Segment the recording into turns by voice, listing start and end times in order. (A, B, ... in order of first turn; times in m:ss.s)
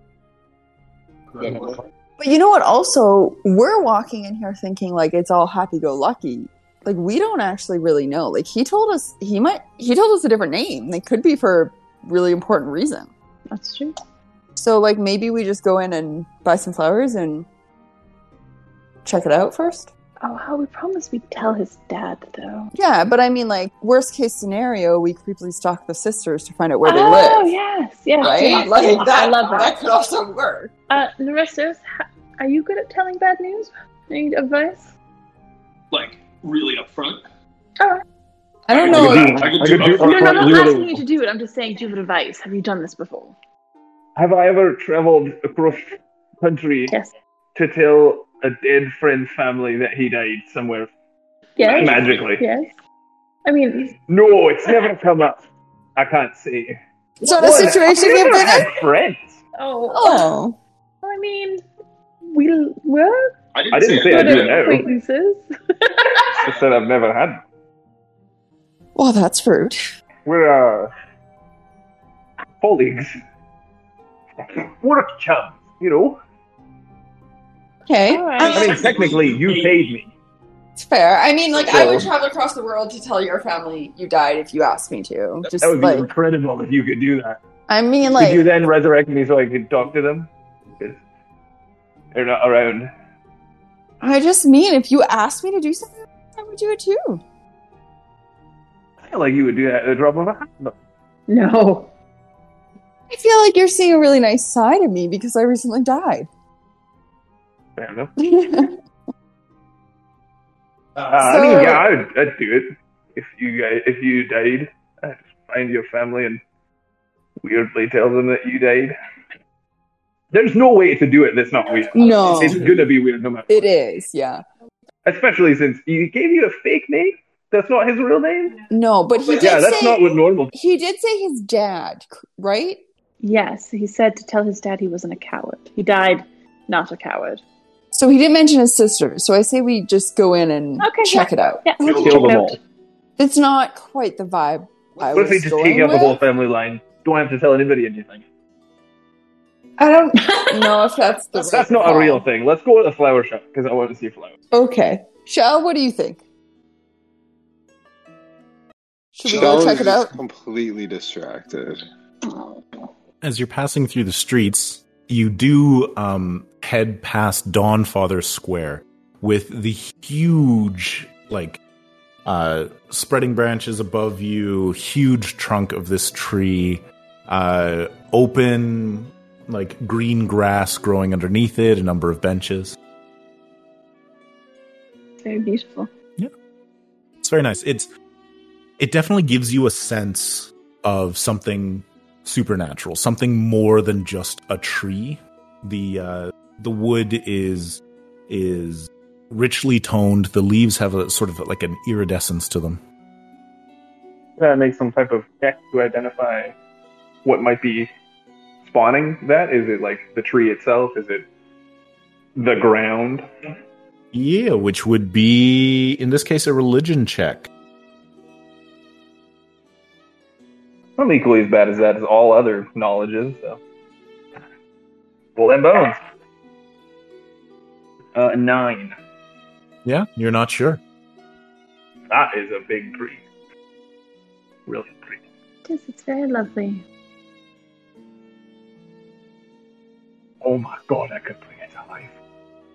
0:02.2-0:13.1 A
0:13.5-0:13.9 B
0:14.6-0:17.4 A
0:19.0-0:19.9 A
0:20.2-0:22.7 B
0:22.7-0:27.5 A
0:26.8-0:29.8 B
0:28.2-0:30.7 A
0:30.9-0:34.9 B
0:35.9-0:37.2 C
0:38.7-0:39.5 A
0:38.7-0:40.7 C
0:38.8-0:41.0 D
0:40.0-0:43.3 B
0:44.2-0:46.9 D
0:47.5-0:50.9 D
0:51.6-0:52.8 B
0:51.6-0:52.4 D
0:51.7-0:52.3 C
0:53.4-0:53.9 B
0:54.1-0:55.4 D
0:56.0-0:56.8 D
0:57.2-0:58.7 A
0:57.4-0:59.4 D
0:57.4-0:58.0 C
0:59.6-1:00.3 B
0:59.9-1:00.6 A
1:01.0-1:01.6 B
1:02.3-1:03.3 B
1:03.5-1:04.8 C
1:03.7-1:04.9 D
1:03.9-1:06.3 B
1:06.4-1:07.4 D
1:09.0-1:09.8 A
1:10.2-1:10.9 D
1:12.6-1:13.2 D
1:14.5-1:16.2 D
1:17.9-1:18.8 A
1:18.0-1:18.7 B
1:18.4-1:19.8 C
1:18.4-1:20.1 D
1:20.8-1:26.1 A
1:21.5-1:22.1 D
1:21.7-1:22.0 C
1:25.6-1:27.4 D
1:27.7-1:28.5 A
1:28.0-1:31.0 D
1:32.1-1:32.9 D
1:34.0-1:37.2 A
1:39.1-1:40.7 D
1:41.3-1:41.9 B
1:43.1-1:46.3 A
1:47.8-1:48.1 D
1:48.2-1:48.8 A
1:51.0-1:56.4 D
1:51.2-1:51.9 A
1:57.4-1:58.9 D
2:00.3-2:03.6 D
2:01.9-2:02.7 A
2:02.1-2:02.7 C
2:03.5-2:04.4 A
2:05.0-2:08.6 D
2:08.7-2:12.8 A
2:09.4-2:10.5 D
2:13.2-2:17.4 B
2:17.9-2:22.3 A
2:20.8-2:22.6 B
2:21.8-2:22.4 C
2:21.9-2:22.6 D
2:23.2-2:26.2 A
2:25.1-2:28.2 D
2:29.8-2:32.2 A
2:30.2-2:30.8 B
2:31.4-2:34.3 D
2:34.5-2:36.2 A
2:39.2-2:40.1 A
2:39.2-2:41.8 E
2:43.2-2:51.6 F
2:52.2-3:02.8 F
3:05.2-3:05.9 B
3:07.2-3:07.9 F
3:08.8-3:22.8 F
3:24.4-3:26.5 D
3:27.2-3:27.9 D
3:28.6-3:31.3 D
3:32.4-3:33.3 D
3:34.1-3:37.5 F
3:41.0-3:43.6 D
3:45.4-3:46.0 D
3:48.1-3:49.0 D
3:49.8-3:50.8 F
3:52.1-3:53.2 D
3:54.6-3:55.2 D
3:55.6-3:56.8 B
4:00.4-4:02.1 D